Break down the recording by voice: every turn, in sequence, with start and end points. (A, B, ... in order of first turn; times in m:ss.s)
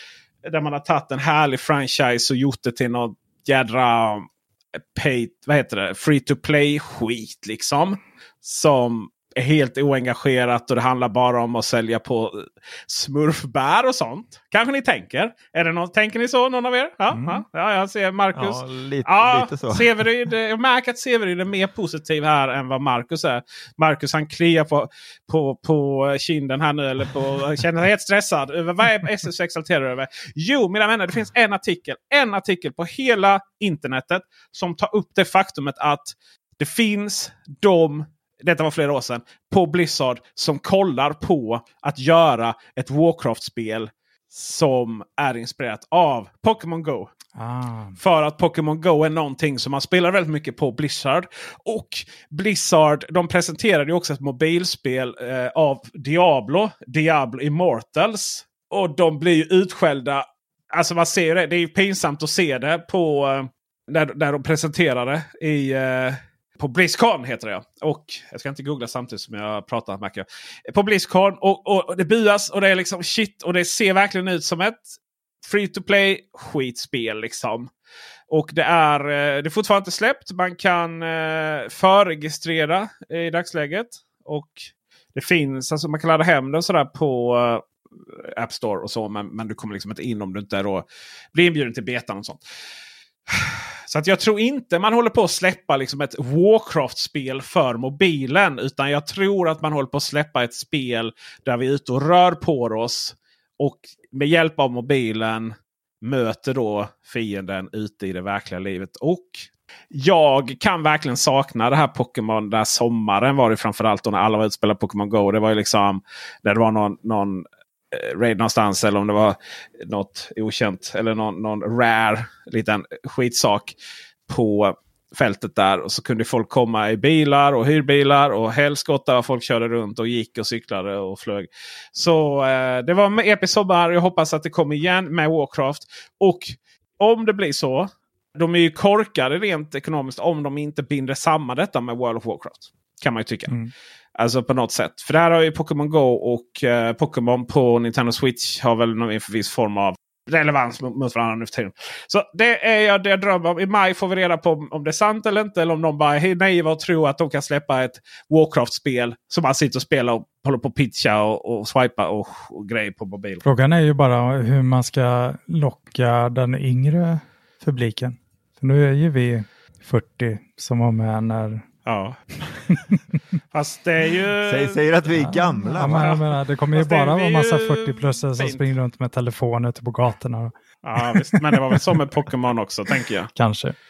0:00.4-0:04.3 A
0:04.9-0:47.1 A
0:17.1-0:17.4 B
0:18.3-0:19.9 C
0:47.4-0:48.0 B
0:48.0-1:17.7 A
1:18.3-1:32.4 A
1:33.3-2:03.7 A
2:04.3-2:23.6 A
2:24.2-2:43.4 A
2:43.4-2:51.6 B
2:51.8-2:52.2 A
2:53.5-2:54.9 A
2:54.4-2:56.1 C
2:55.1-3:00.5 B
2:55.9-2:58.6 A
3:00.8-3:03.3 A
3:01.1-3:01.8 B
3:03.4-3:03.7 B